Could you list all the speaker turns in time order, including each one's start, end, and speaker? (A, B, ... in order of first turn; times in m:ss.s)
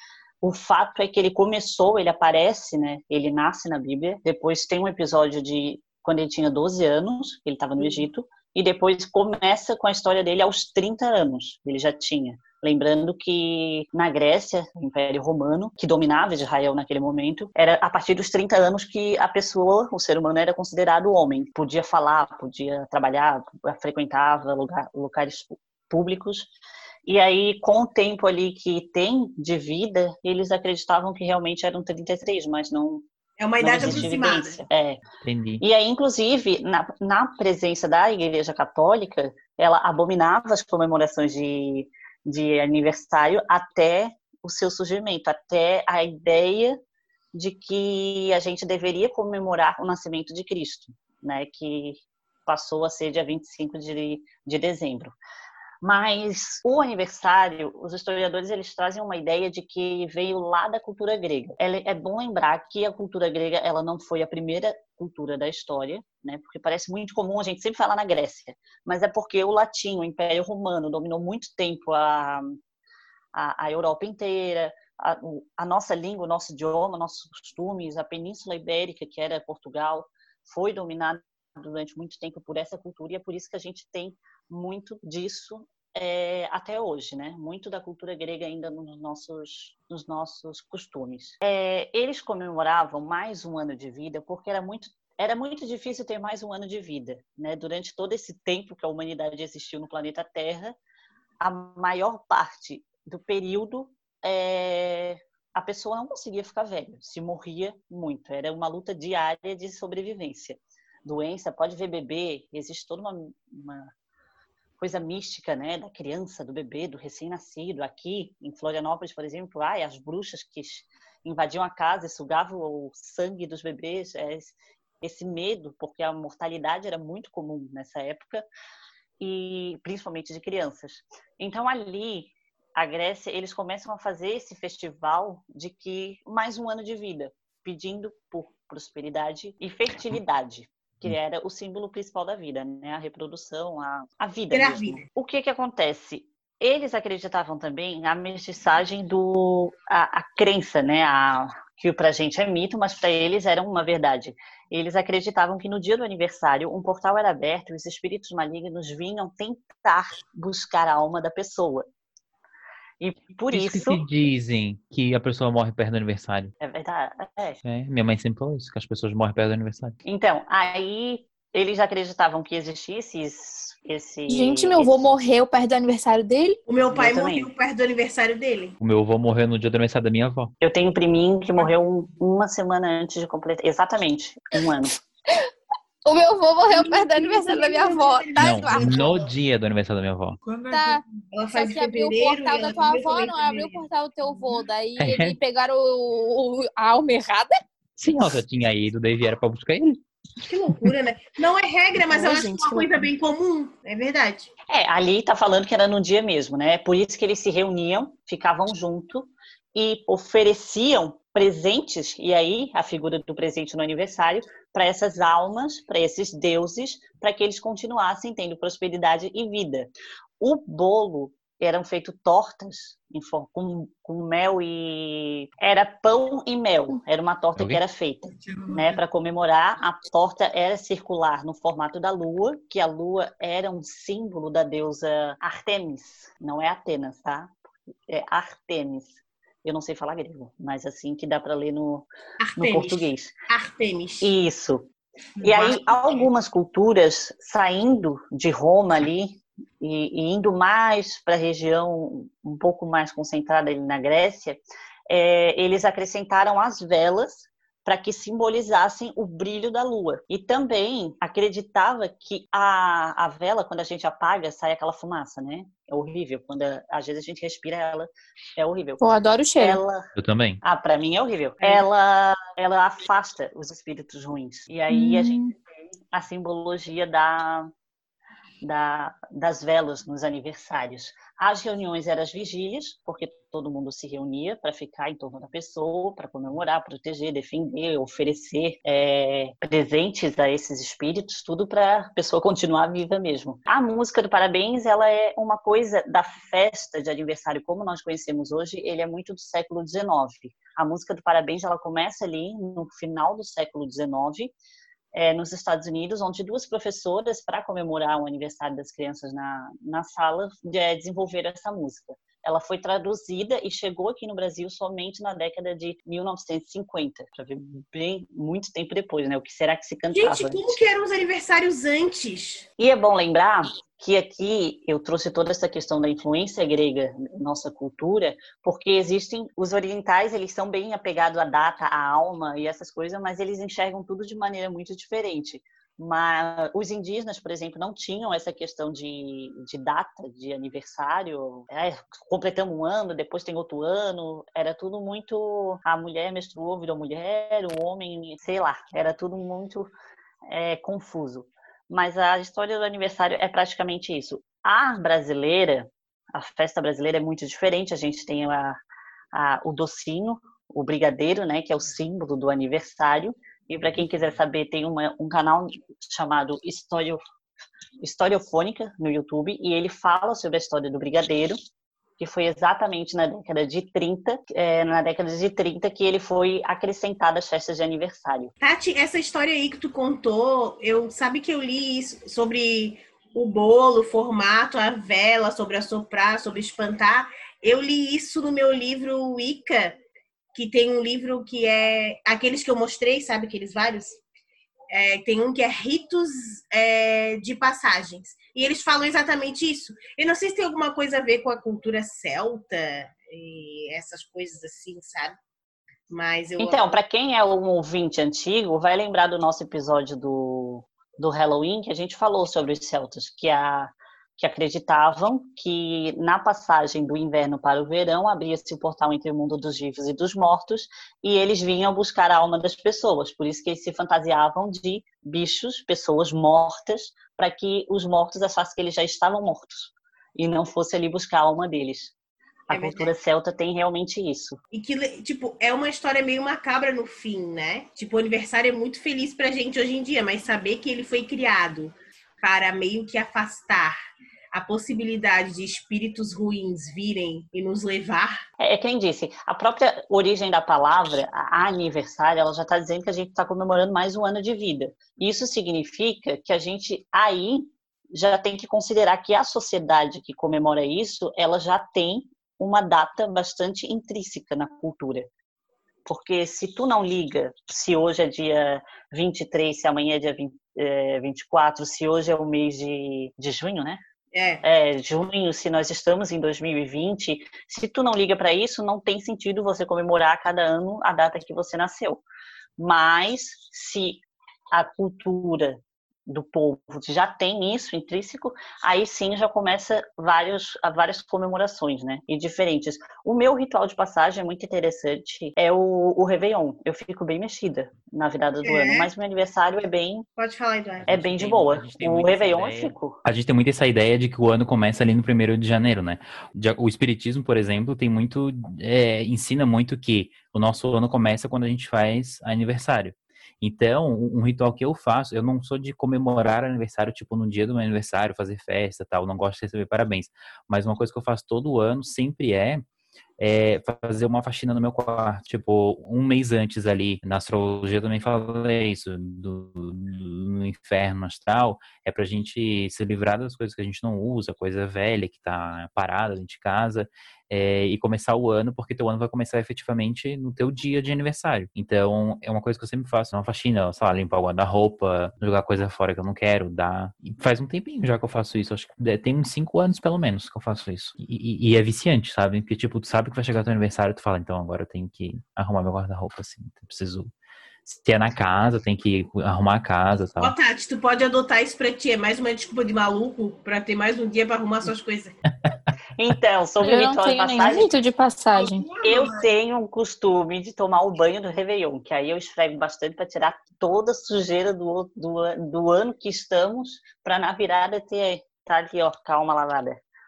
0:00.4-0:26.5 A
0:27.0-0:33.0 A
0:33.4-0:34.6 B
0:33.6-0:35.0 A
0:33.7-0:34.1 C
0:35.2-0:35.6 C
0:35.6-0:46.8 A
0:47.3-0:55.2 A
0:55.8-1:12.6 A
1:13.3-1:40.8 A
1:41.4-1:53.9 A
1:54.8-2:08.4 A
2:09.2-2:41.8 A
2:24.5-2:25.0 B
2:43.0-2:44.0 A
2:43.5-2:46.5 C
2:46.6-2:47.6 A
2:47.6-2:49.9 C
2:50.0-2:55.2 A
2:54.3-2:56.6 D
2:56.7-2:58.8 B
2:56.9-2:57.5 A
2:58.8-3:00.5 C
3:00.6-3:04.9 A
3:06.0-3:09.0 D
3:06.7-3:09.3 B
3:08.4-3:10.4 C
3:10.4-3:11.0 E
3:10.7-3:11.0 D
3:11.3-3:13.8 B
3:11.5-3:17.5 D
3:15.0-3:15.4 C
3:18.0-3:20.0 C
3:20.5-3:24.5 B
3:22.1-3:23.0 D
3:24.7-3:57.6 A
3:48.4-3:49.0 E
3:58.1-4:02.0 A
4:02.4-4:04.3 B
4:02.6-4:03.3 A
4:04.2-4:04.9 A
4:05.4-4:29.0 A
4:29.0-4:29.8 D
4:29.6-4:30.1 A
4:30.2-4:30.6 C
4:30.6-4:35.5 A
4:34.9-4:35.5 D
4:36.1-4:37.7 A
4:38.6-5:04.5 A
5:05.1-5:20.8 A
5:20.1-5:22.6 B
5:22.8-5:49.9 A
5:50.5-5:58.8 A
5:59.3-6:07.2 A
6:08.0-6:11.6 A
6:12.2-6:18.5 A
6:18.6-6:30.0 B
6:30.5-6:34.2 B
6:34.9-6:45.4 B
6:46.1-6:46.9 B
6:46.6-7:12.1 A
7:12.7-7:14.6 A
7:12.7-7:13.1 B
7:14.7-7:24.0 B
7:24.5-7:28.4 B
7:28.6-7:45.3 A
7:46.0-7:54.0 A
7:54.3-7:54.6 B
7:54.6-8:02.2 A
8:02.8-8:20.2 A
8:18.6-8:19.1 B
8:20.4-8:21.1 B
8:21.0-8:42.8 C
8:21.1-8:23.2 A
8:43.4-9:17.3 C
9:17.8-9:20.5 C
9:20.4-9:25.3 B
9:26.2-9:27.9 A
9:26.8-9:28.8 D
9:28.5-9:29.5 E
9:29.0-9:40.0 A